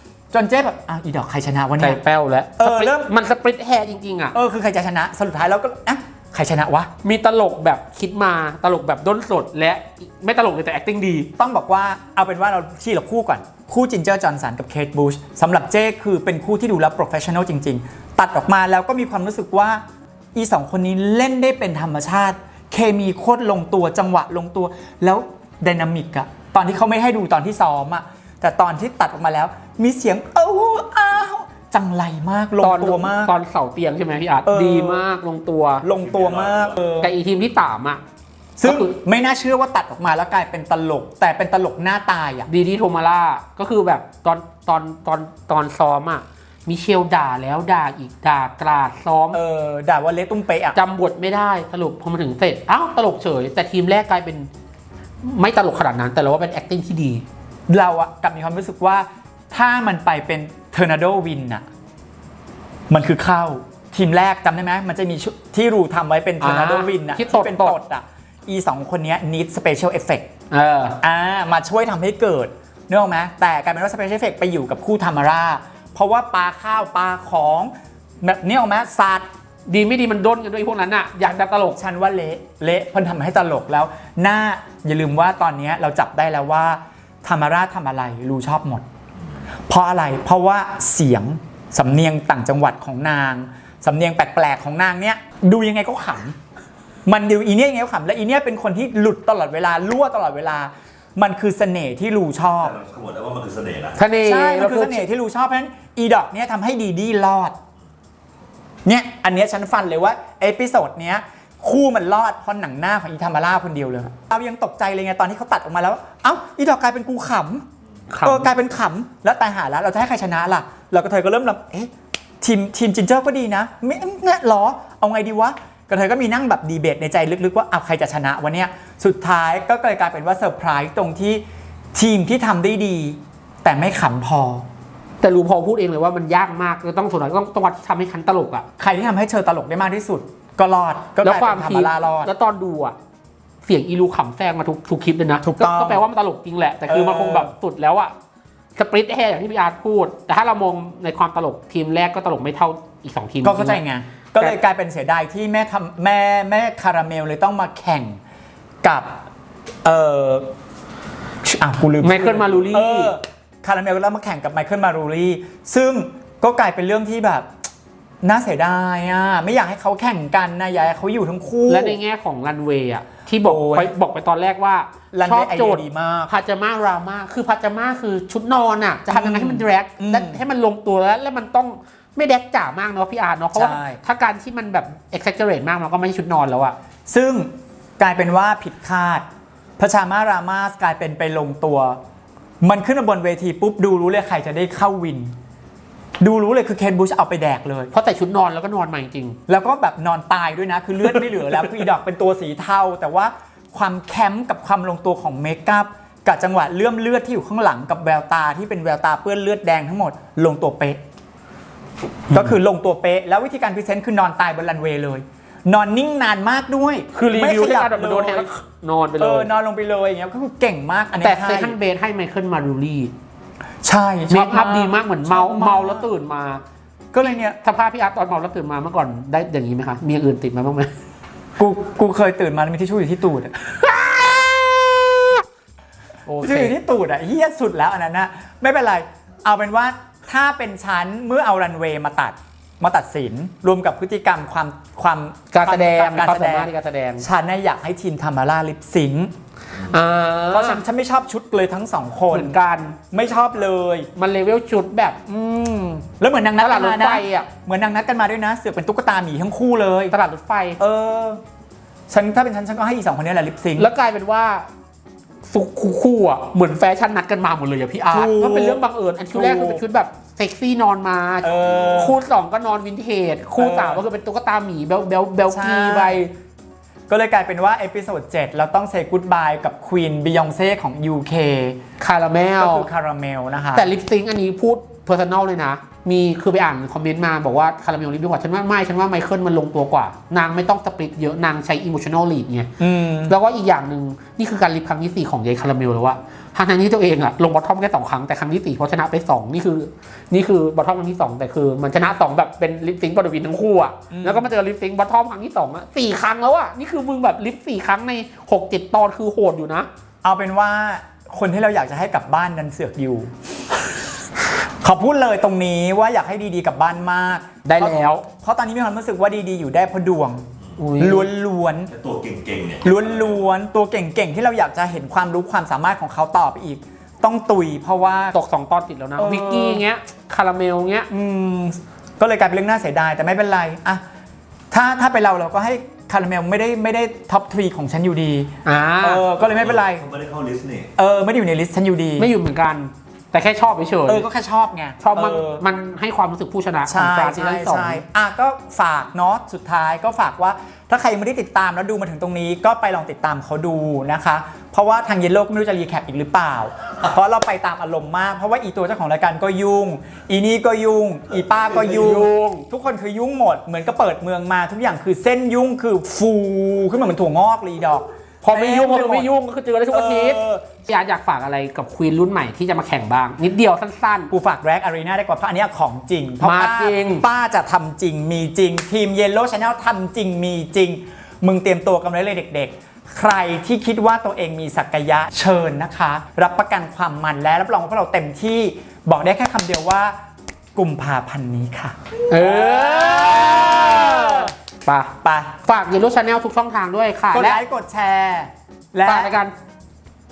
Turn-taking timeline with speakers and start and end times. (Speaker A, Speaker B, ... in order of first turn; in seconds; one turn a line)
Speaker A: 0.3-2.0
Speaker B: 1.8-4.3
Speaker A: 2.6-3.1
Speaker A: 4.3-6.9
Speaker B: 7.0-11.3
Speaker A: 11.4-19.8
Speaker A: 20.3-33.3
Speaker B: 32.6-35.9
Speaker A: 34.5-35.0
Speaker A: 35.8-37.1
Speaker C: 36.2-36.6
Speaker B: 37.0-38.0
Speaker A: 38.6-42.5
Speaker B: 38.6-38.9
Speaker B: 42.5-49.4
Speaker A: 49.3-50.8
Speaker B: 50.7-54.5
Speaker B: 55.2-57.2
Speaker A: 57.7-61.6
Speaker A: 62.9-70.3
Speaker B: 66.4-67.8
Speaker B: 70.5-71.0
Speaker A: 71.0-77.7
Speaker A: 78.2-79.3
Speaker B: 79.7-81.8
Speaker A: 81.8-88.8
Speaker A: 89.7-96.3
Speaker A: 97.0-102.8
Speaker C: 102.8-104.0
Speaker B: 104.0-105.0
Speaker A: 104.2-107.5
Speaker A: 108.8-117.7
Speaker B: 118.1-118.5
Speaker A: 118.2-131.4
Speaker A: 131.9-134.7
Speaker B: 135.2-138.7
Speaker A: 138.8-142.3
Speaker B: 141.2-142.9
Speaker B: 143.6-148.1
Speaker A: 145.4-146.0
Speaker A: 146.9-147.5
Speaker B: 148.8-153.8
Speaker A: 153.4-158.2
Speaker A: 158.8-159.1
Speaker A: 159.8-160.5
Speaker A: 161.4-167.5
Speaker B: 162.0-163.1
Speaker A: 168.2-172.0
Speaker B: 171.7-186.8
Speaker A: 173.4-173.9
Speaker A: 175.1-176.3
Speaker A: 179.1-180.4
Speaker A: 183.5-184.0
Speaker A: 187.1-189.2
Speaker A: 189.8-192.0
Speaker A: 192.6-195.3
Speaker A: 196.2-197.9
Speaker B: 197.9-199.4
Speaker A: 199.5-211.0
Speaker A: 212.3-218.5
Speaker B: 217.1-219.5
Speaker A: 219.2-221.7
Speaker B: 221.2-223.1
Speaker A: 223.8-226.1
Speaker B: 224.3-226.6
Speaker A: 227.1-227.6
Speaker B: 227.2-230.9
Speaker A: 231.6-235.4
Speaker B: 236.3-236.7
Speaker A: 236.4-249.3
Speaker B: 245.5-247.2
Speaker B: 249.8-250.8
Speaker A: 250.5-252.6
Speaker B: 252.3-253.0
Speaker A: 253.1-254.1
Speaker B: 254.2-256.0
Speaker A: 256.0-260.1
Speaker B: 256.6-257.5
Speaker B: 260.1-260.8
Speaker A: 260.8-261.4
Speaker A: 262.1-263.9
Speaker B: 263.8-264.7
Speaker B: 265.5-276.3
Speaker A: 268.1-268.8
Speaker A: 269.3-269.8
Speaker A: 271.4-272.2
Speaker A: 273.6-274.0
Speaker A: 275.5-276.2
Speaker A: 277.1-281.8
Speaker B: 282.0-282.9
Speaker A: 282.6-283.9
Speaker B: 283.7-292.7
Speaker A: 292.8-293.3
Speaker B: 293.3-309.9
Speaker A: 304.1-304.5
Speaker A: 310.2-313.3
Speaker A: 314.6-320.4
Speaker B: 317.6-318.2
Speaker B: 320.8-321.3
Speaker A: 321.0-321.9
Speaker C: 321.9-322.9
Speaker A: 322.8-328.3
Speaker B: 328.3-331.1
Speaker A: 329.2-329.8
Speaker A: 331.1-334.0
Speaker A: 334.7-340.1
Speaker B: 338.6-339.2
Speaker C: 340.0-340.9
Speaker A: 340.9-342.3
Speaker B: 342.2-344.2
Speaker A: 344.1-345.6
Speaker B: 345.0-348.0
Speaker A: 346.8-369.3
Speaker B: 361.8-362.7
Speaker B: 368.4-374.3
Speaker A: 369.9-370.6
Speaker A: 374.3-390.1
Speaker B: 376.4-377.2
Speaker A: 390.7-394.5
Speaker B: 392.3-397.6
Speaker A: 395.2-395.5
Speaker A: 397.3-399.4
Speaker B: 399.1-399.5